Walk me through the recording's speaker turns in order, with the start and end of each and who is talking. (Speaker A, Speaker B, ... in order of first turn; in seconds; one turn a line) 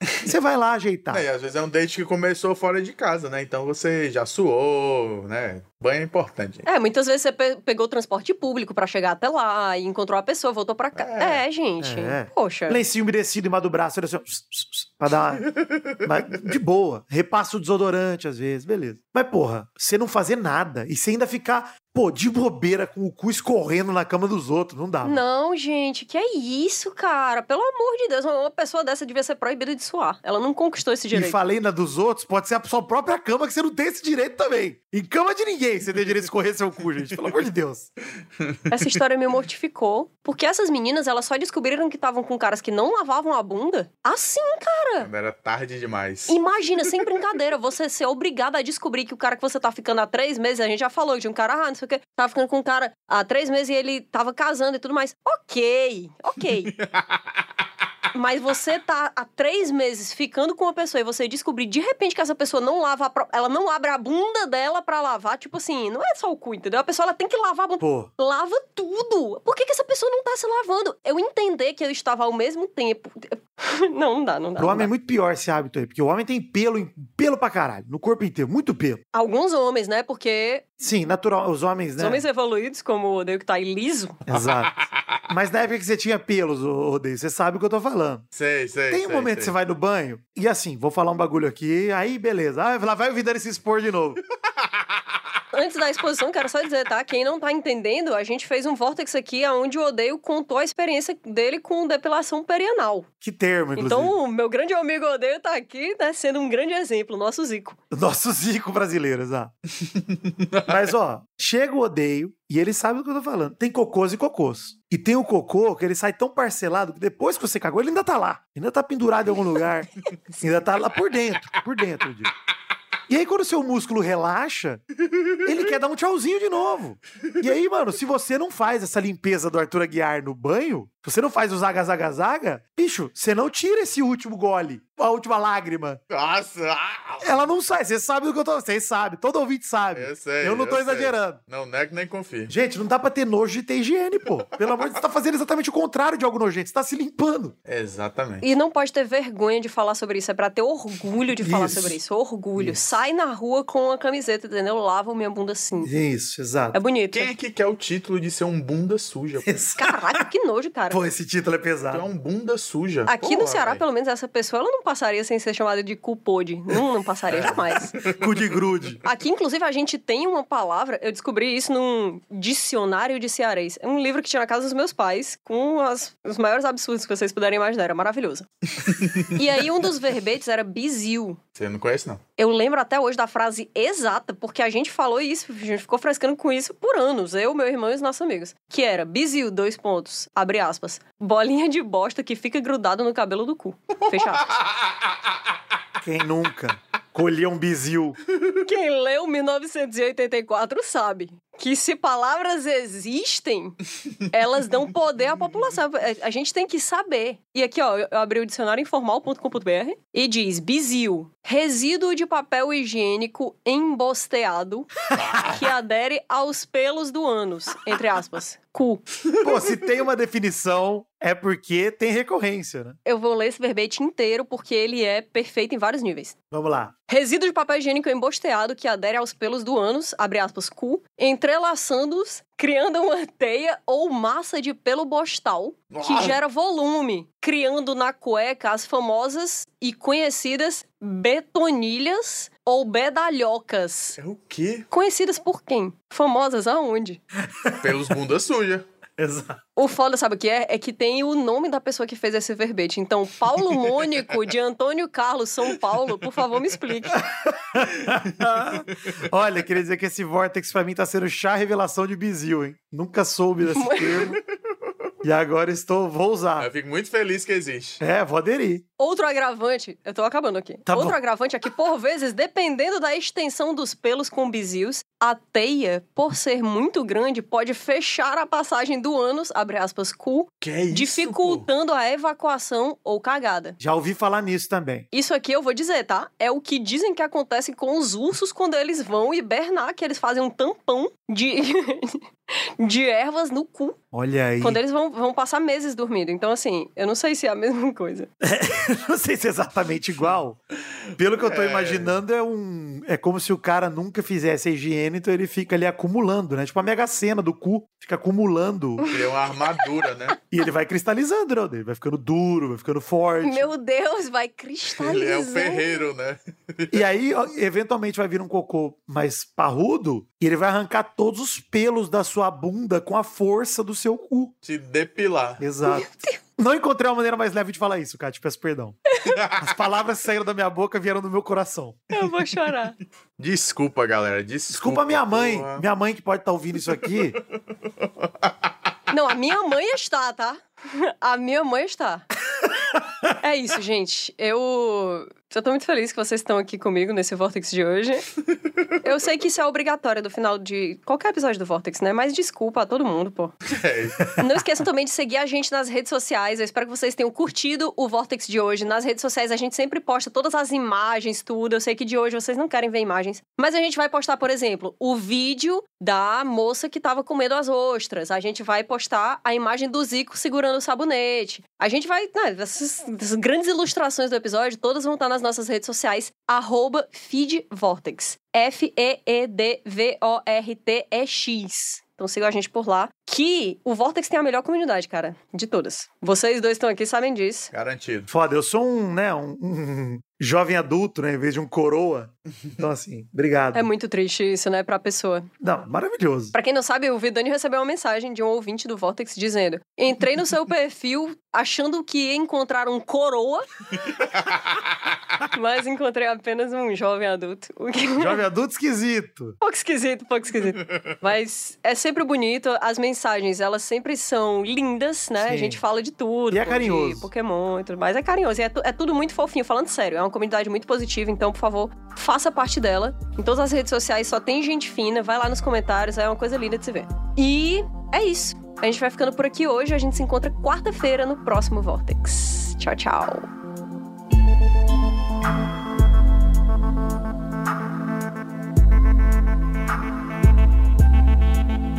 Speaker A: 0.2-1.2
Speaker B: 1.1-6.7
Speaker C: 6.6-12.8
Speaker B: 10.9-11.4
Speaker A: 11.8-15.5
Speaker B: 15.4-16.1
Speaker A: 16.0-25.2
Speaker C: 25.0-31.4
Speaker A: 31.1-37.9
Speaker C: 38.7-45.1
Speaker B: 45.0-46.4
Speaker C: 46.3-56.7
Speaker B: 56.8-57.2
Speaker C: 58.1-74.9
Speaker A: 67.8-68.1
Speaker A: 74.6-79.0
Speaker C: 79.1-80.6
Speaker A: 80.8-82.2
Speaker C: 82.0-84.2
Speaker A: 84.3-84.8
Speaker B: 84.3-84.9
Speaker A: 85.3-88.2
Speaker B: 88.3-89.5
Speaker A: 88.9-94.2
Speaker C: 95.5-103.1
Speaker A: 103.2-104.1
Speaker C: 103.8-107.8
Speaker A: 107.9-109.5
Speaker B: 109.8-110.7
Speaker A: 110.7-122.3
Speaker A: 123.1-124.8
Speaker A: 125.4-136.0
Speaker B: 136.1-137.4
Speaker A: 137.2-141.4
Speaker B: 139.9-142.5
Speaker A: 142.5-147.5
Speaker B: 147.7-148.4
Speaker C: 148.4-155.9
Speaker A: 151.4-151.9
Speaker A: 155.8-156.8
Speaker C: 156.7-157.3
Speaker B: 157.1-159.6
Speaker A: 159.4-160.2
Speaker C: 159.8-161.0
Speaker A: 160.9-162.1
Speaker B: 161.9-163.8
Speaker C: 163.1-168.0
Speaker B: 167.3-168.5
Speaker A: 168.0-169.0
Speaker C: 169.0-178.5
Speaker B: 178.8-179.4
Speaker C: 179.3-181.4
Speaker B: 181.6-182.2
Speaker C: 182.4-194.5
Speaker B: 194.1-194.6
Speaker A: 196.0-198.2
Speaker C: 198.6-203.8
Speaker C: 204.3-219.0
Speaker A: 215.1-215.6
Speaker A: 219.4-222.9
Speaker C: 223.0-226.3
Speaker A: 226.5-226.9
Speaker C: 227.1-244.2
Speaker B: 235.9-236.4
Speaker B: 244.2-244.9
Speaker C: 244.9-247.2
Speaker A: 247.4-248.1
Speaker B: 247.8-248.8
Speaker A: 249.2-249.6
Speaker C: 249.8-257.2
Speaker A: 257.1-264.4
Speaker C: 263.7-264.4
Speaker A: 265.2-266.7
Speaker B: 266.6-268.0
Speaker A: 268.0-268.8
Speaker C: 269.0-283.8
Speaker A: 270.9-271.2
Speaker B: 280.6-281.7
Speaker A: 283.8-285.1
Speaker C: 285.1-294.0
Speaker A: 294.1-294.8
Speaker C: 294.6-298.3
Speaker A: 298.4-300.6
Speaker A: 301.2-309.1
Speaker B: 301.3-302.2
Speaker C: 309.0-309.3
Speaker B: 309.1-310.4
Speaker A: 310.5-313.7
Speaker C: 313.4-316.0
Speaker B: 314.9-317.0
Speaker A: 316.9-324.5
Speaker B: 324.6-325.6
Speaker A: 325.6-329.0
Speaker C: 325.9-326.4
Speaker C: 329.1-329.4
Speaker B: 329.3-329.7
Speaker A: 329.6-332.0
Speaker C: 332.1-333.0
Speaker B: 333.4-335.8
Speaker A: 334.7-337.4
Speaker B: 338.0-338.5
Speaker C: 339.1-342.2
Speaker C: 343.4-348.2
Speaker C: 349.0-353.5
Speaker B: 353.7-354.2
Speaker C: 354.4-387.7
Speaker B: 387.7-388.3
Speaker A: 388.3-393.9
Speaker C: 393.7-395.5
Speaker A: 395.6-396.6
Speaker C: 396.5-403.7
Speaker C: 405.5-408.4
Speaker A: 408.2-409.6
Speaker C: 409.6-433.5
Speaker A: 415.4-415.8
Speaker A: 416.5-417.3